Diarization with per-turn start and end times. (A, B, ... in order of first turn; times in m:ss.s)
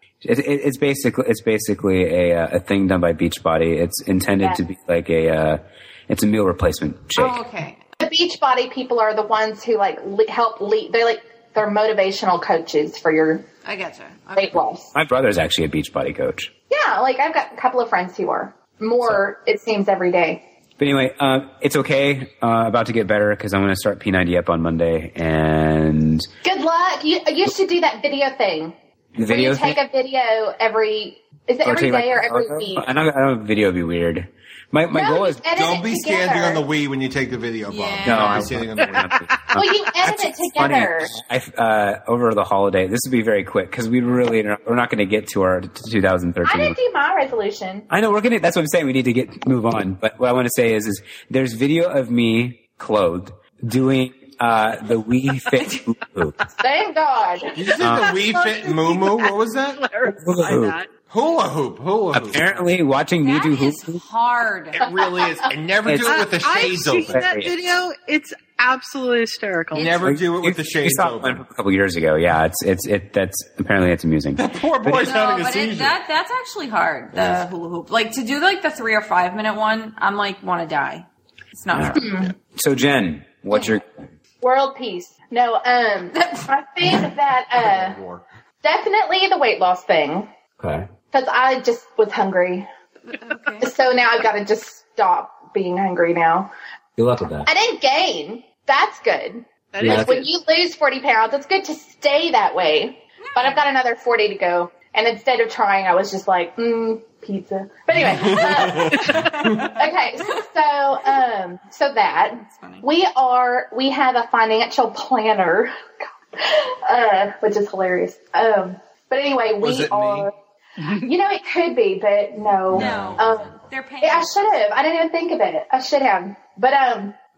0:00.2-0:07.4 A
0:07.2-0:07.8 B
0:08.0-0:13.4 C
0:13.6-0:14.6 B
0:14.3-0:14.9 C
0:14.9-0:16.5 A
0:16.7-0:20.4 C
0:20.8-0:26.3 A
0:26.4-0:28.7 C
0:29.2-0:29.8 A
0:29.3-0:32.9 C
0:31.6-0:35.4 A
0:34.9-0:36.6 C
0:35.5-0:39.2 D
0:37.7-0:38.5 B
0:38.0-0:46.8 A
0:39.0-0:39.5 E
0:39.5-0:41.1 C
0:46.4-0:47.9 C
0:47.9-0:56.4 A
0:56.6-0:57.6 C
0:57.5-0:59.8 D
0:57.8-0:58.1 A
0:57.8-1:00.9 E
1:00.2-1:00.8 A
1:01.1-1:02.7 D
1:02.1-1:04.0 A
1:03.2-1:04.8 B
1:04.7-1:07.2 D
1:04.9-1:05.3 C
1:05.8-1:06.2 A
1:06.0-1:10.0 E
1:07.1-1:07.6 A
1:09.7-1:10.0 B
1:09.7-1:11.4 D
1:10.0-1:15.1 A
1:14.4-1:16.0 D
1:15.0-1:22.2 B
1:17.1-1:17.4 A
1:21.7-1:24.0 A
1:21.9-1:22.3 C
1:24.4-1:28.0 C
1:26.1-1:26.5 B
1:27.5-1:28.2 D
1:28.6-1:30.3 C
1:30.6-1:30.9 A
1:31.1-1:32.7 C
1:33.1-1:33.7 B
1:33.6-1:36.5 C
1:37.0-1:37.5 A
1:37.4-1:55.7 C
1:39.7-1:40.3 E
1:39.8-1:40.2 A
1:43.2-1:43.6 B
1:48.0-1:49.7 D
1:49.0-1:50.3 B
1:52.5-1:52.8 B
1:56.4-2:00.3 C
1:59.6-2:00.3 D
2:00.9-2:03.5 C
2:02.7-2:03.2 D
2:02.7-2:04.6 B
2:02.8-2:03.2 A
2:04.0-2:07.1 C